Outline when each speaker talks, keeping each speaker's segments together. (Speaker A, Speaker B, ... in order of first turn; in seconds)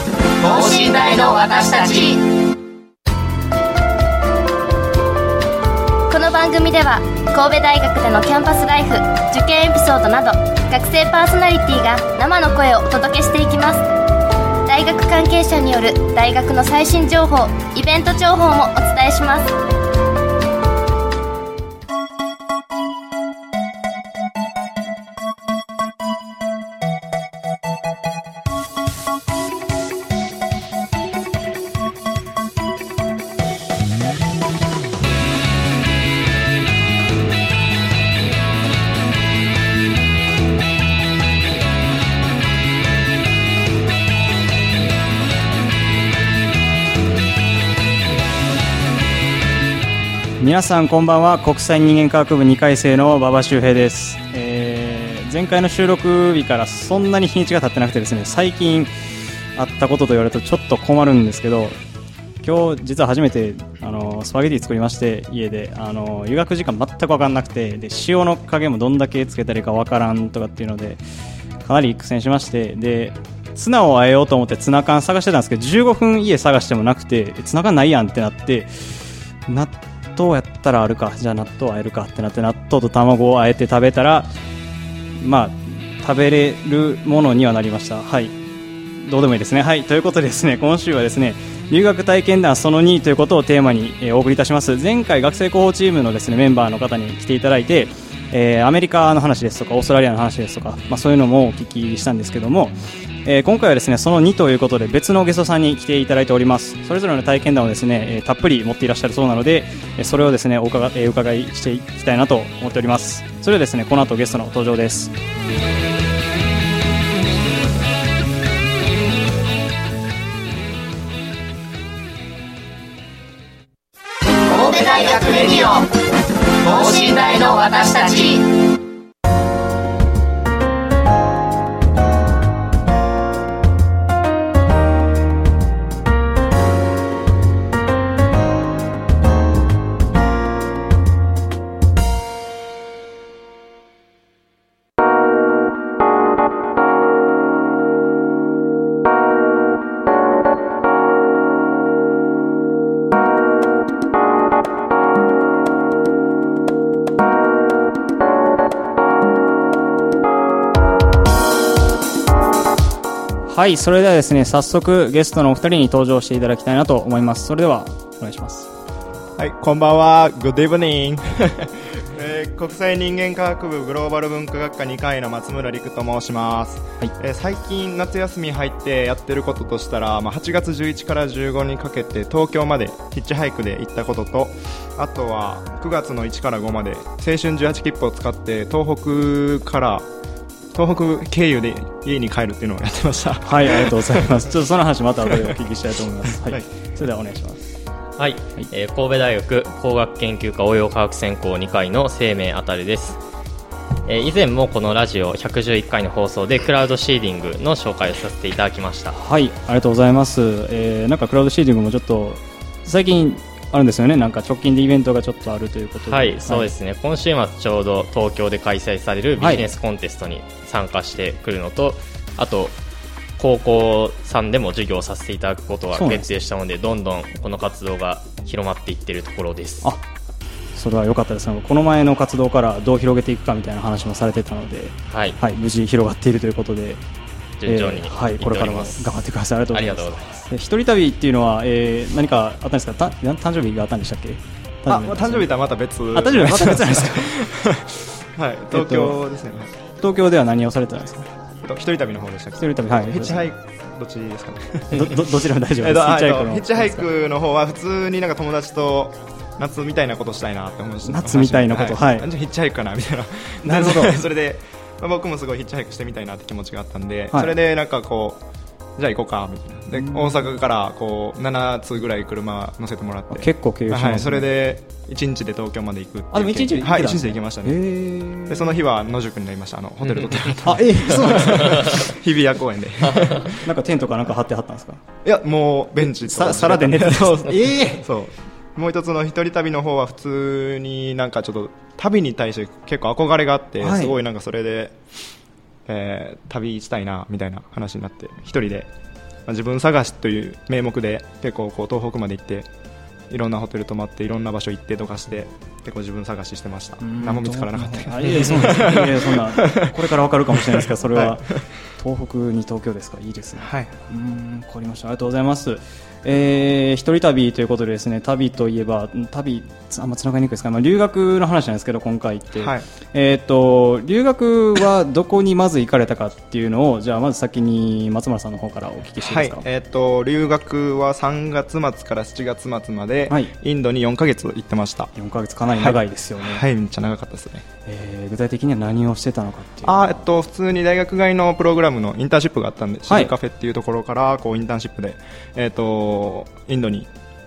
Speaker A: 0.4-2.3, 124.5-126.0, 126.6-128.5
Speaker B: 6.1-13.9, 14.7-19.6
Speaker C: 50.4-58.9, 59.6-61.8, 62.4-71.0, 71.7-84.3, 85.2-88.4, 89.0-115.1, 163.5-168.7, 193.4-197.6, 209.2-216.7, 219.4-219.7, 225.9-226.3, 230.8-237.0, 237.7-245.6, 246.1-247.3, 248.7-249.2, 250.0-251.3, 252.6-253.5, 254.9-257.1, 261.1-262.3, 263.6-264.2, 269.9-270.4, 273.3-274.5, 276.3-278.8, 280.6-282.1, 283.5-285.0, 286.0-288.1, 293.8-294.2, 307.0-329.7, 335.1-336.7, 337.9-340.2, 343.1-343.3
Speaker D: 169.4-190.1, 190.7-194.5, 244.9-249.7, 251.6-255.3, 255.8-268.4, 269.0-277.8, 278.5-283.7, 285.2-295.0, 295.9-298.9, 299.5-302.7, 303.3-311.5, 313.6-313.9, 322.6-322.9, 329.2-335.1, 335.7-337.6, 339.8-347.1
Speaker E: 198.2-203.2, 204.1-209.2, 216.1-222.8, 223.4-229.9, 235.1-235.4, 237.6-239.1, 239.7-240.5, 280.1-280.5, 281.6-281.9, 283.1-283.4